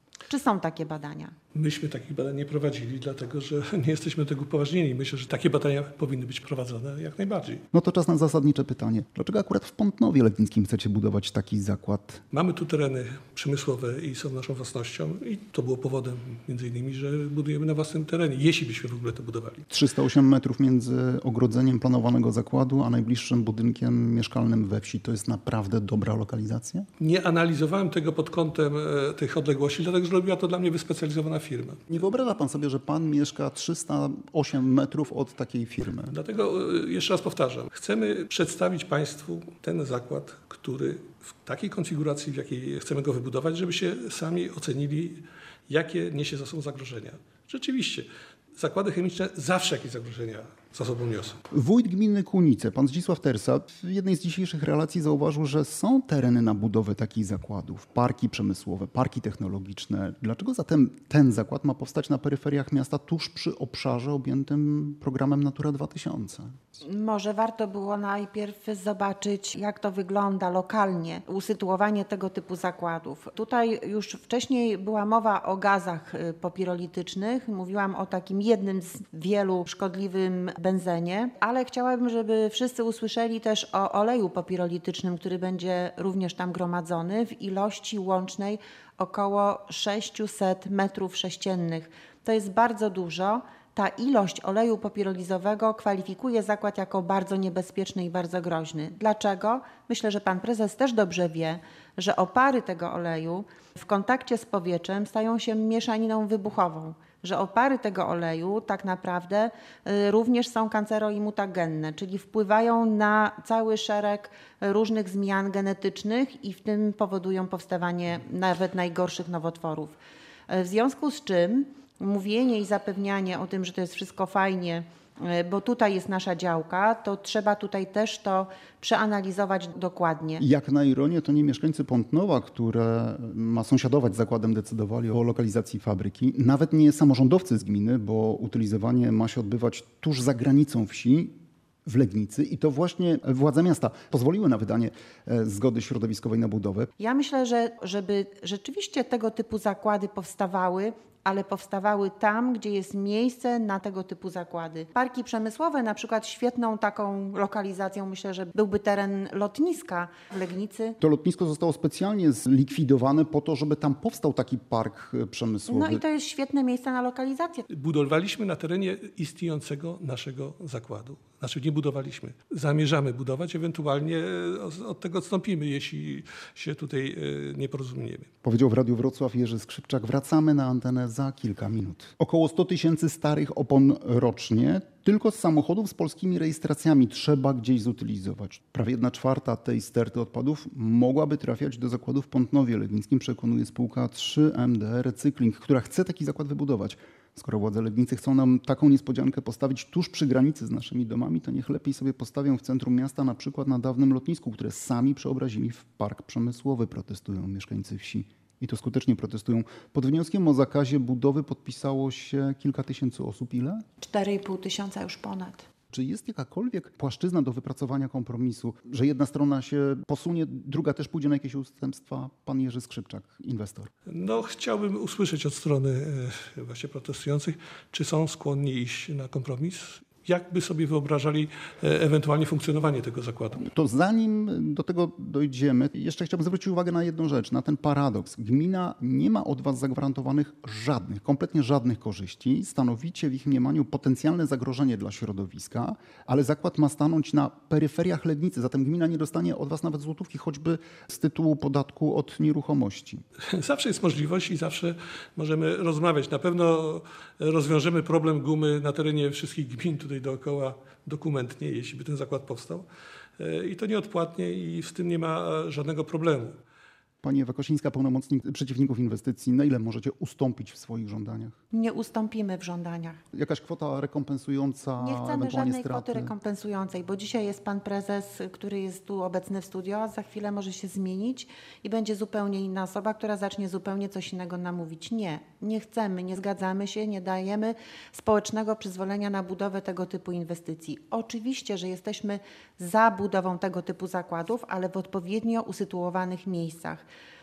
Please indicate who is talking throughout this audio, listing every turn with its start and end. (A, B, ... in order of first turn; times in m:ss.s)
0:00.3-0:01.3 A
0:01.5-0:07.6 B
0:07.7-0:12.2 C
0:12.3-0:19.7 B
0:19.7-0:26.9 C
0:27.0-0:31.9 B
0:31.9-0:36.1 C
0:36.1-0:51.4 B
0:51.5-1:06.5 C
1:06.8-2:00.0 A
2:00.5-2:10.4 A
2:10.4-2:26.9 C
2:27.0-2:41.0 A
2:41.0-2:46.0 C
2:45.7-2:47.6 A
2:47.7-2:58.3 B
2:58.4-3:33.8 C
3:34.0-3:35.6 A
3:35.9-3:43.9 C
3:44.1-3:53.6 B
3:53.6-4:13.2 C
4:13.4-4:22.8 B
4:23.4-4:26.6 B
4:27.2-4:31.6 C
4:31.7-4:33.2 A
4:33.3-4:36.3 C
4:35.0-4:57.0 A